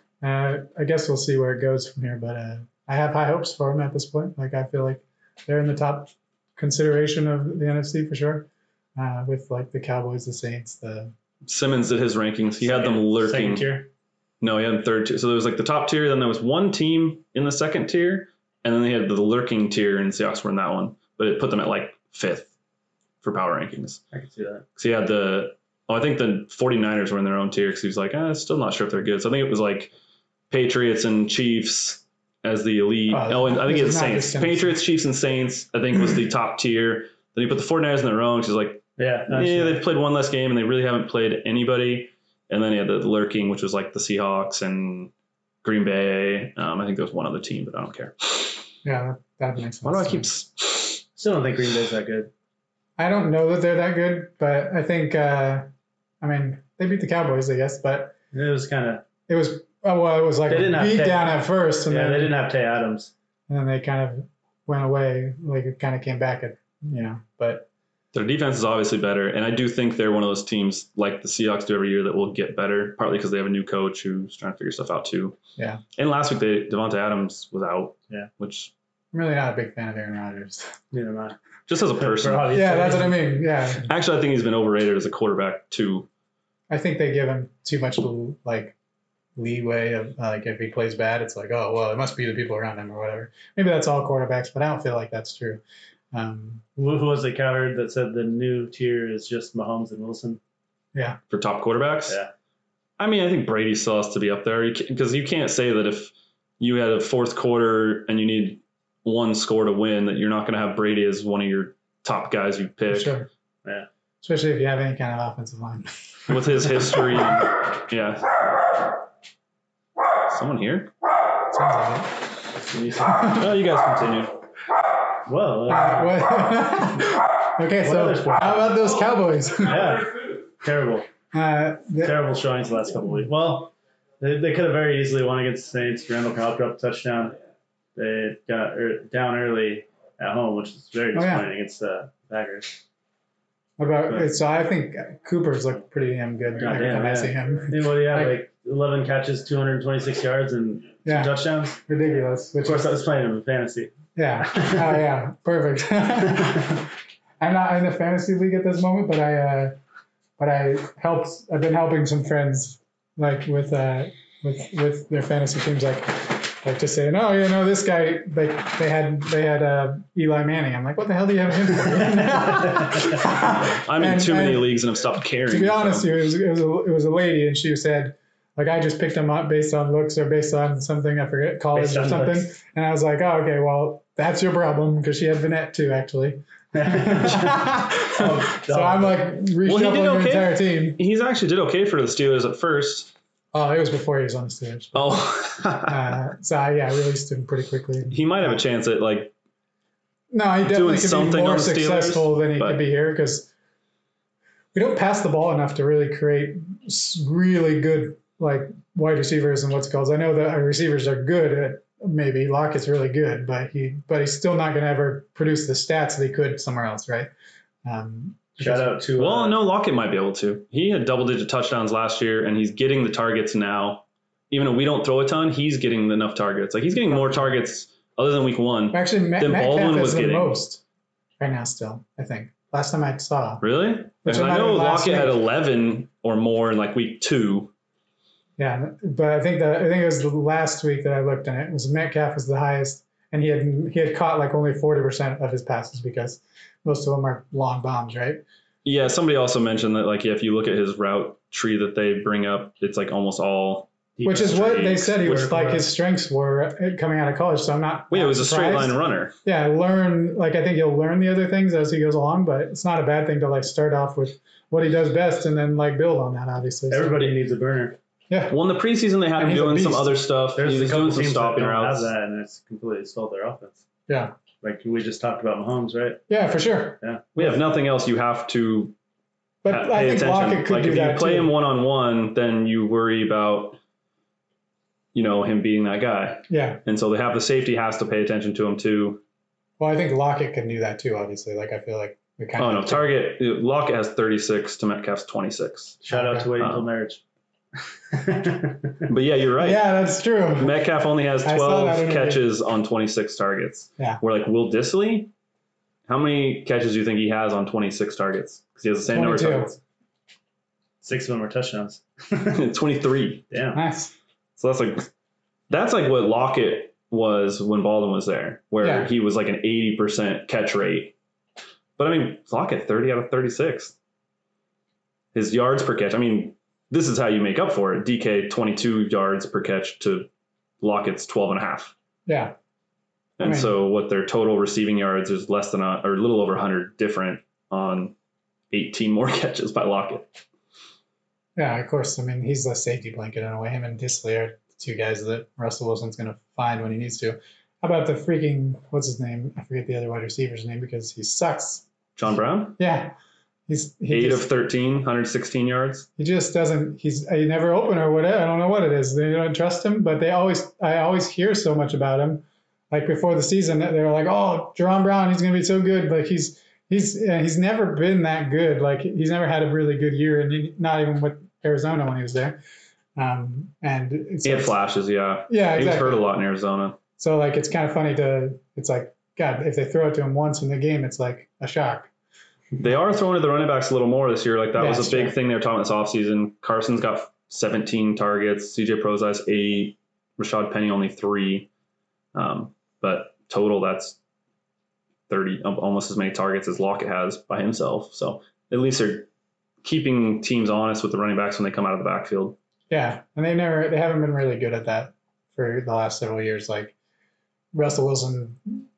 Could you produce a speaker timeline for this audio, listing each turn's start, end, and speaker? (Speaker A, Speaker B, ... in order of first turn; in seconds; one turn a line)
Speaker A: 0.2-11.1
Speaker B: 11.4-13.8
Speaker C: 12.6-13.9
Speaker B: 14.4-22.5
Speaker B: 23.2-24.0
Speaker C: 24.1-24.6
Speaker B: 24.8-29.9
Speaker B: 30.5-45.1
Speaker A: 33.1-34.8
Speaker C: 39.0-39.8
Speaker B: 45.6-48.6
Speaker A: 48.8-50.3
Speaker B: 49.8-51.0
Speaker C: 51.1-52.3
Speaker A: 53.0-55.7
Speaker A: 56.2-58.1
Speaker C: 58.3-59.0
Speaker A: 59.3-62.3
Speaker C: 60.5-63.1
Speaker A: 63.5-67.7
Speaker B: 68.1-75.4
Speaker A: 75.6-75.8
Speaker B: 76.0-78.7
Speaker A: 79.1-80.7
Speaker C: 80.9-81.4
Speaker B: 81.7-82.6
Speaker C: 81.9-83.2
Speaker A: 82.5-83.9
Speaker B: 83.8-86.1
Speaker A: 86.7-88.7
Speaker A: 89.3-95.6
Speaker A: 96.1-96.6
Speaker C: 96.8-100.4
Speaker B: 101.3-102.2
Speaker B: 103.0-113.1
Speaker A: 112.9-113.3
Speaker A: 114.2-117.0
Speaker B: 116.3-118.4
Speaker B: 120.3-120.9
Speaker A: 121.5-122.1
Speaker C: 122.6-123.4
Speaker B: 123.2-124.3
Speaker C: 125.2-126.2
Speaker A: 125.7-129.8
Speaker C: 127.8-128.8
Speaker C: 129.6-131.1
Speaker A: 131.3-132.2
Speaker C: 132.0-137.4
Speaker C: 137.9-142.8
Speaker A: 141.1-141.5
Speaker A: 143.8-148.4
Speaker C: 146.6-151.8
Speaker A: 151.0-151.3
Speaker A: 151.9-152.9
Speaker C: 152.6-153.9
Speaker A: 154.1-156.8
Speaker C: 154.5-154.9
Speaker A: 157.4-159.8
Speaker A: 160.4-174.8
Speaker C: 172.2-172.8
Speaker B: 173.7-176.1
Speaker A: 175.4-191.0
Speaker C: 181.7-182.5
Speaker C: 186.7-189.2
Speaker B: 189.6-193.1
Speaker A: 193.5-195.3
Speaker B: 194.9-196.1
Speaker A: 195.8-198.6
Speaker B: 198.1-199.3
Speaker A: 200.3-203.5
Speaker B: 200.7-202.8
Speaker A: 204.7-217.3
Speaker A: 217.8-219.0
Speaker C: 218.6-219.6
Speaker B: 219.2-230.6
Speaker A: 227.1-227.5
Speaker A: 228.9-230.8
Speaker A: 231.4-233.6
Speaker B: 233.6-237.7
Speaker A: 234.2-235.4
Speaker A: 238.6-248.4
Speaker B: 248.8-255.3
Speaker C: 254.2-255.9
Speaker A: 254.2-267.3
Speaker B: 258.1-259.3
Speaker C: 266.9-268.0
Speaker A: 268.3-268.6
Speaker B: 268.5-272.1
Speaker A: 269.3-270.2
Speaker C: 270.5-273.8
Speaker A: 274.1-274.3
Speaker C: 274.6-276.2
Speaker A: 276.3-277.0
Speaker C: 277.0-277.4
Speaker B: 277.3-278.9
Speaker A: 279.6-281.5
Speaker B: 279.7-283.8
Speaker B: 285.1-289.2
Speaker A: 286.5-286.8
Speaker A: 289.8-293.1
Speaker B: 292.6-296.0
Speaker C: 296.0-297.2
Speaker A: 296.1-296.5
Speaker B: 296.6-296.9
Speaker C: 298.1-299.1
Speaker B: 299.1-299.9
Speaker A: 299.6-300.8
Speaker B: 300.6-305.3
Speaker A: 301.4-302.4
Speaker B: 306.1-309.8
Speaker A: 309.1-309.7
Speaker C: 311.0-312.6
Speaker B: 312.5-313.4
Speaker C: 313.5-313.8
Speaker A: 313.7-314.1
Speaker B: 314.6-315.1
Speaker B: 315.7-321.1
Speaker A: 318.8-319.1
Speaker B: 322.0-323.9
Speaker B: 325.3-330.3
Speaker B: 330.8-331.9
Speaker A: 332.3-332.5
Speaker B: 333.4-338.1
Speaker A: 333.4-333.7
Speaker B: 338.7-340.4
Speaker A: 341.6-351.8
Speaker B: 352.1-352.8
Speaker A: 352.8-353.1
Speaker A: 353.7-354.5
Speaker B: 354.1-356.1
Speaker A: 356.2-372.6
Speaker A: 373.1-374.8
Speaker B: 374.4-377.0
Speaker A: 375.5-376.3
Speaker A: 377.2-382.1
Speaker B: 382.8-391.7
Speaker A: 384.8-385.3
Speaker B: 392.3-394.2
Speaker B: 395.3-399.3
Speaker B: 399.8-402.6
Speaker A: 402.9-406.9
Speaker A: 407.7-408.9